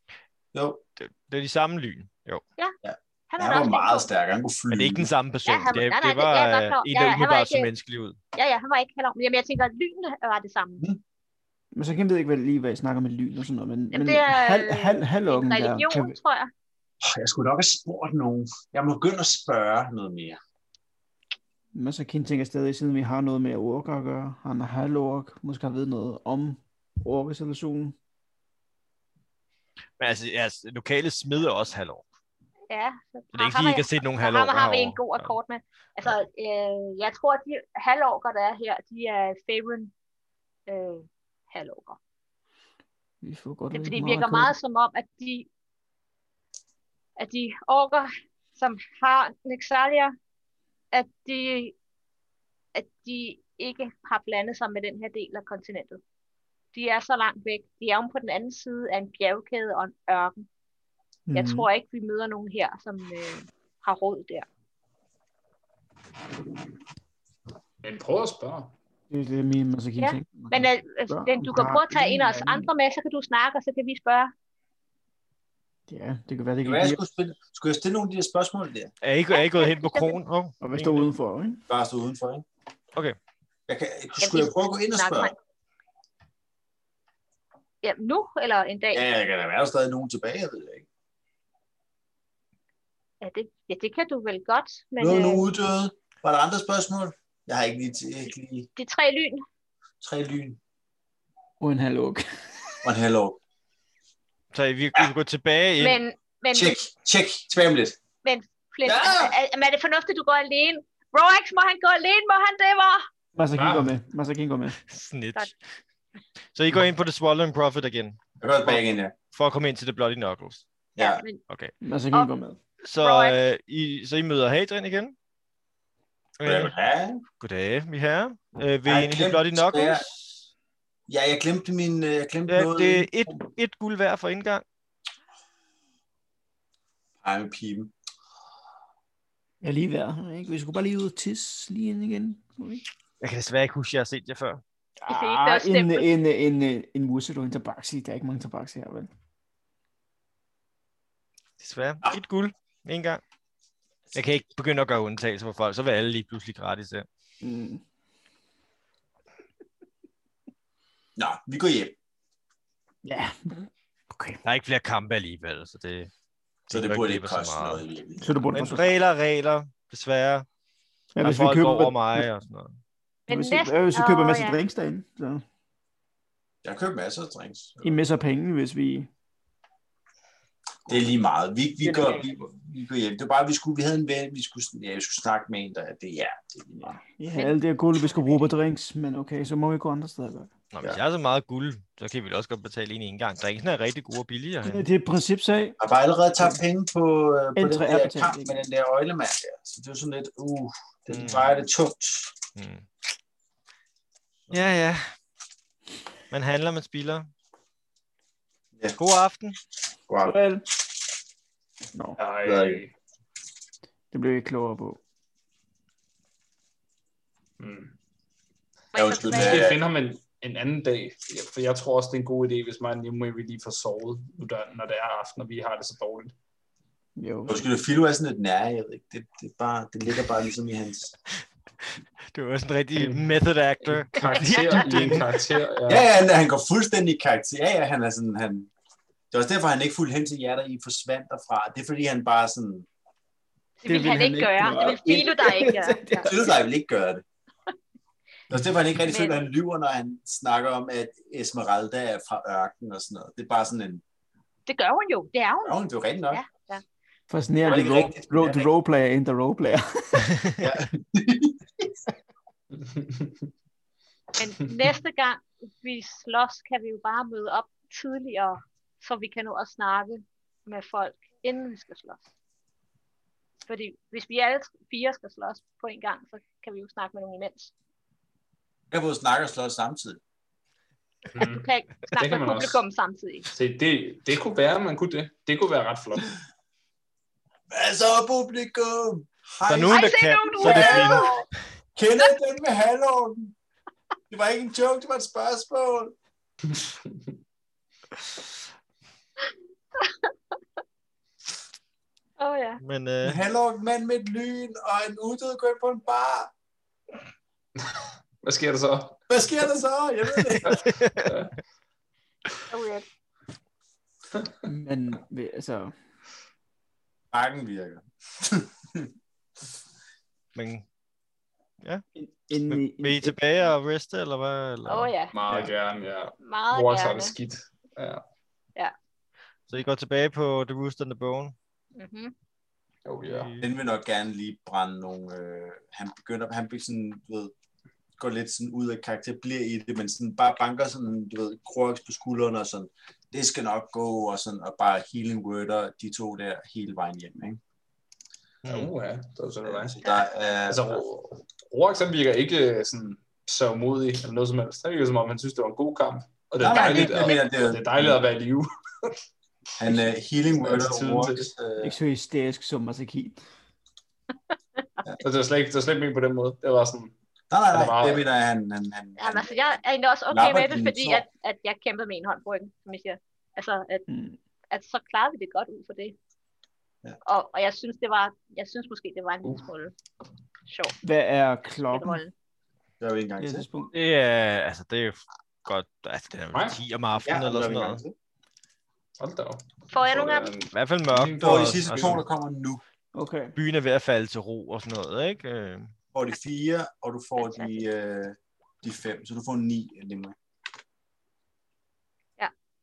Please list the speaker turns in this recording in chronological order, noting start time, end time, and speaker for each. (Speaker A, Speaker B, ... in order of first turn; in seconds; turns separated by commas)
Speaker A: 0.5-0.8, Speaker B: 1.0-2.4, Speaker A: 2.8-5.1, Speaker C: 3.3-4.1, Speaker B: 4.7-8.2, Speaker C: 5.5-7.7, Speaker C: 8.3-10.8, Speaker D: 11.7-16.1, Speaker C: 13.9-16.5, Speaker A: 17.0-20.4, Speaker D: 21.7-27.9, Speaker B: 30.0-32.0, Speaker C: 32.7-39.9, Speaker B: 33.3-35.3, Speaker C: 40.7-42.0, Speaker D: 43.2-44.5, Speaker C: 43.7-45.5, Speaker C: 47.2-50.1, Speaker C: 50.9-51.7, Speaker C: 52.7-56.0, Speaker C: 56.7-60.5, Speaker D: 61.3-61.7, Speaker C: 61.3-64.5, Speaker E: 67.8-68.8, Speaker D: 69.1-72.7, Speaker C: 70.0-74.3, Speaker D: 75.9-77.0, Speaker A: 76.6-78.9, Speaker B: 79.0-81.1, Speaker C: 79.3-80.2, Speaker D: 80.6-81.6, Speaker A: 81.7-82.4, Speaker A: 83.7-85.3, Speaker C: 84.2-85.3, Speaker C: 87.8-89.0, Speaker A: 88.9-90.8, Speaker C: 93.2-95.4, Speaker A: 95.0-98.7, Speaker C: 98.8-99.4, Speaker A: 100.0-100.6, Speaker D: 101.6-102.8, Speaker A: 102.8-103.4, Speaker B: 104.5-106.0, Speaker C: 105.8-106.8, Speaker A: 106.5-108.0, Speaker C: 108.2-113.0, Speaker A: 108.8-109.3, Speaker D: 113.3-114.8, Speaker E: 113.5-113.9, Speaker B: 114.9-115.6, Speaker B: 116.5-120.6, Speaker A: 118.4-119.1, Speaker A: 121.0-121.2, Speaker C: 121.0-121.4, Speaker B: 121.5-121.7, Speaker D: 121.8-122.6, Speaker B: 122.8-125.1, Speaker C: 123.0-123.4, Speaker B: 126.4-126.7, Speaker A: 126.4-127.2, Speaker B: 127.4-130.3, Speaker A: 128.8-130.1, Speaker A: 131.1-133.4, Speaker B: 132.5-134.6, Speaker A: 137.2-137.9, Speaker D: 139.6-142.8, Speaker B: 143.2-144.6, Speaker C: 145.1-146.1, Speaker D: 145.1-149.1, Speaker B: 151.6-153.2, Speaker B: 154.1-157.1, Speaker D: 157.4-157.8, Speaker A: 161.2-161.9, Speaker D: 163.0-164.4, Speaker B: 164.4-166.1, Speaker B: 166.7-167.8, Speaker A: 166.7-168.3, Speaker D: 168.2-168.9, Speaker B: 168.5-170.4, Speaker D: 171.1-172.3, Speaker B: 171.2-172.8, Speaker C: 173.3-174.6, Speaker D: 173.3-175.4, Speaker A: 176.6-178.0, Speaker D: 177.8-179.1, Speaker A: 180.8-187.0, Speaker D: 181.8-182.3, Speaker D: 186.9-190.5, Speaker B: 190.7-194.8, Speaker D: 194.6-195.8, Speaker A: 195.8-202.4, Speaker D: 197.6-198.6, Speaker B: 201.1-201.6, Speaker B: 202.6-202.9, Speaker B: 204.5-205.0, Speaker B: 206.3-207.3, Speaker B: 209.0-209.6, Speaker A: 210.1-210.3, Speaker D: 210.2-210.6, Speaker D: 211.9-212.2, Speaker E: 212.2-212.9, Speaker A: 212.4-212.8, Speaker D: 214.1-215.0, Speaker E: 217.6-217.9, Speaker C: 218.9-219.7, Speaker A: 218.9-219.8, Speaker E: 219.2-226.3, Speaker D: 227.2-227.7, Speaker A: 227.5-231.1, Speaker B: 232.3-235.3, Speaker E: 232.9-236.1, Speaker A: 235.9-238.7, Speaker A: 239.3-242.9, Speaker C: 243.8-246.3, Speaker D: 243.9-246.5, Speaker A: 246.2-247.2, Speaker A: 248.5-254.0, Speaker C: 249.0-249.4, Speaker C: 254.7-255.8, Speaker A: 255.6-256.4, Speaker C: 256.3-256.8, Speaker D: 257.3-260.6, Speaker A: 257.6-258.7, Speaker E: 257.7-258.1, Speaker B: 260.4-260.6, Speaker A: 260.6-261.9, Speaker E: 262.8-263.3, Speaker C: 264.4-272.2, Speaker C: 273.7-277.7, Speaker A: 278.9-280.2, Speaker E: 281.3-282.8, Speaker C: 281.4-283.4, Speaker E: 283.5-286.3, Speaker A: 287.7-290.0, Speaker B: 289.7-291.3, Speaker C: 289.8-291.4, Speaker A: 290.6-291.3, Speaker A: 291.9-293.5, Speaker A: 294.3-296.1, Speaker C: 300.0-300.3, Speaker C: 302.4-302.8, Speaker B: 302.8-303.4, Speaker A: 303.2-306.5, Speaker E: 307.8-309.1, Speaker A: 309.3-310.9, Speaker E: 310.6-311.5, Speaker B: 310.7-311.3, Speaker C: 312.7-313.1, Speaker D: 314.6-315.9, Speaker A: 317.3-319.1, Speaker B: 320.5-320.9, Speaker D: 322.1-323.4, Speaker B: 322.7-325.7, Speaker C: 324.9-325.3, Speaker E: 325.3-328.2, Speaker C: 326.4-327.3, Speaker B: 329.7-331.5, Speaker C: 331.9-332.3, Speaker E: 333.1-333.5, Speaker B: 333.3-333.7, Speaker A: 333.6-337.5, Speaker A: 338.2-347.6, Speaker E: 348.6-350.1, Speaker B: 348.6-348.9, Speaker A: 349.7-351.0, Speaker E: 350.7-359.2, Speaker A: 356.6-358.2, Speaker C: 356.6-357.5, Speaker A: 359.8-361.9, Speaker E: 360.5-361.5, Speaker D: 361.8-363.4, Speaker E: 365.2-367.1, Speaker A: 367.5-369.5, Speaker E: 367.7-368.3, Speaker C: 369.2-374.1, Speaker A: 370.3-371.2, Speaker D: 374.1-374.4, Speaker C: 374.7-376.1, Speaker C: 377.2-379.9, Speaker C: 380.7-380.9, Speaker D: 381.0-382.2, Speaker C: 381.9-382.3, Speaker A: 383.0-383.7, Speaker D: 383.4-383.9, Speaker B: 383.9-388.0, Speaker E: 386.5-386.8, Speaker A: 387.2-388.1, Speaker E: 389.2-391.8, Speaker C: 389.9-390.5, Speaker B: 390.7-392.2, Speaker A: 391.4-392.8, Speaker D: 393.1-393.6, Speaker B: 393.6-395.9, Speaker A: 396.1-400.3, Speaker C: 397.4-397.8